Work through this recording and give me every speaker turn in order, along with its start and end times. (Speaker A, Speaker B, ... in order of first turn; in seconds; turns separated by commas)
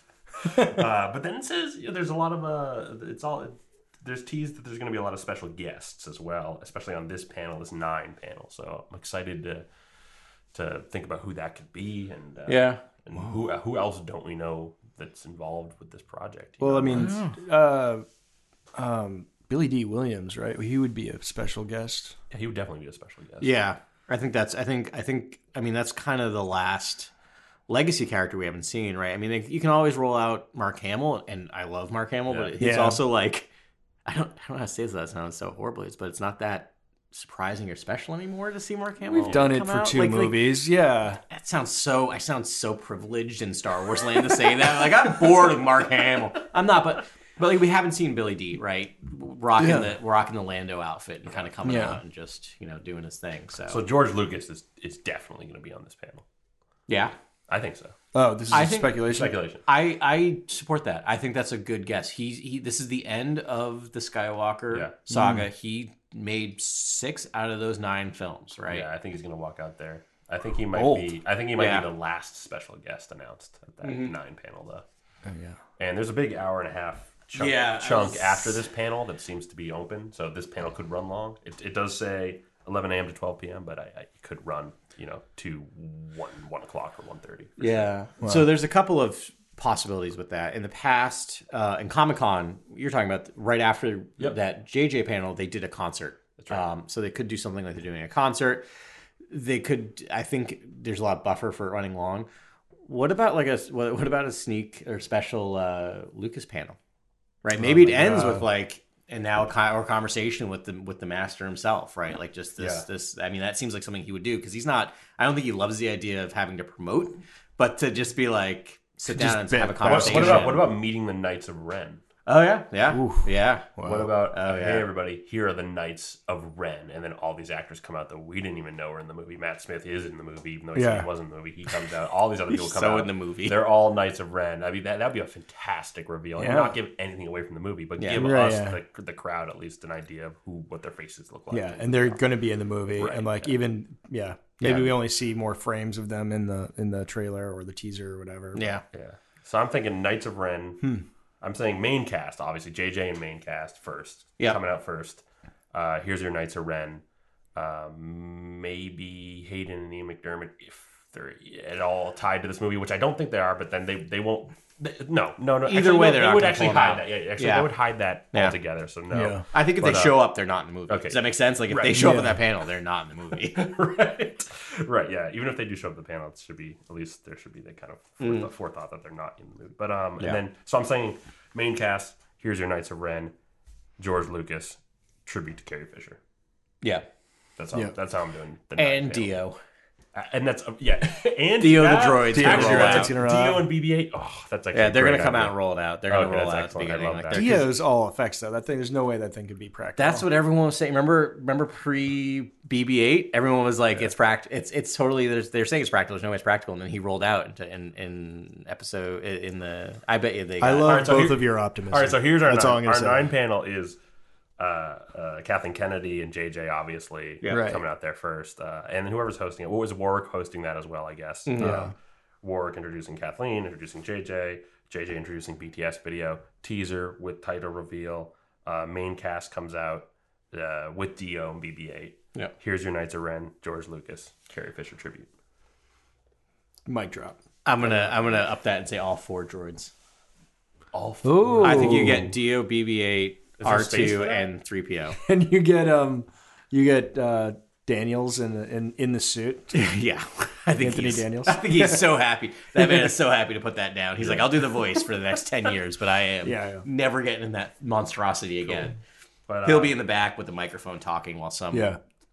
Speaker A: 0.4-0.8, Speaker B: 0.4-9.7, Speaker B: 10.5-17.2, Speaker C: 12.5-12.8, Speaker A: 16.6-18.0, Speaker C: 16.9-17.4, Speaker A: 18.7-22.2, Speaker B: 22.3-23.7, Speaker C: 23.4-27.1, Speaker C: 27.7-33.5, Speaker B: 32.3-32.6, Speaker A: 32.6-33.0, Speaker C: 34.0-40.5, Speaker B: 39.1-39.4, Speaker A: 39.2-41.2, Speaker C: 41.3-53.8, Speaker A: 49.6-49.9, Speaker A: 51.6-52.0, Speaker B: 53.7-56.2, Speaker C: 56.9-57.1, Speaker B: 57.5-58.0, Speaker A: 58.1-59.4, Speaker C: 58.5-59.0, Speaker B: 59.0-59.6, Speaker C: 59.6-68.8, Speaker A: 65.1-65.5, Speaker B: 68.7-74.8, Speaker C: 70.7-71.9, Speaker C: 73.8-74.1, Speaker A: 75.2-75.6, Speaker B: 75.8-87.9, Speaker C: 77.3-78.6, Speaker C: 87.6-98.7, Speaker A: 88.2-88.5, Speaker B: 96.4-96.6, Speaker C: 99.3-102.3, Speaker C: 102.8-106.8, Speaker C: 107.4-120.7, Speaker A: 107.6-108.4, Speaker B: 112.6-112.8, Speaker A: 119.1-120.6, Speaker B: 119.8-122.0, Speaker C: 122.2-124.9, Speaker A: 122.9-124.1, Speaker B: 123.8-142.2, Speaker A: 130.7-131.1, Speaker C: 132.5-133.7, Speaker A: 136.4-136.8, Speaker C: 138.0-138.3, Speaker A: 138.1-138.8, Speaker A: 141.5-148.6, Speaker B: 142.9-143.6, Speaker C: 144.6-144.9, Speaker C: 148.5-148.8, Speaker B: 148.9-157.0, Speaker B: 157.5-170.3, Speaker C: 165.6-167.7, Speaker A: 169.1-169.4, Speaker C: 169.5-173.7, Speaker B: 170.9-172.3, Speaker A: 171.9-172.4, Speaker B: 173.5-183.3, Speaker C: 178.2-178.5, Speaker B: 184.0-186.2, Speaker B: 187.6-189.4, Speaker C: 188.8-189.6, Speaker B: 190.1-197.7, Speaker C: 191.6-193.1, Speaker A: 192.1-193.7, Speaker C: 194.7-197.7, Speaker A: 197.3-200.2, Speaker C: 200.0-211.1, Speaker A: 210.6-213.3, Speaker B: 210.8-214.0, Speaker B: 214.6-221.9, Speaker C: 217.4-217.7, Speaker A: 217.5-217.8, Speaker C: 221.4-221.9, Speaker A: 221.6-221.9, Speaker B: 222.4-235.3, Speaker A: 236.8-237.4, Speaker C: 237.6-239.9, Speaker B: 240.9-242.3, Speaker A: 241.2-242.2, Speaker C: 241.6-245.2, Speaker B: 243.6-244.5, Speaker A: 245.2-249.8, Speaker C: 249.7-258.9, Speaker A: 250.8-252.1, Speaker A: 252.8-253.1, Speaker B: 254.2-254.5, Speaker A: 256.4-256.9, Speaker B: 258.6-258.9, Speaker B: 259.5-260.0, Speaker C: 259.6-262.0, Speaker A: 261.7-262.0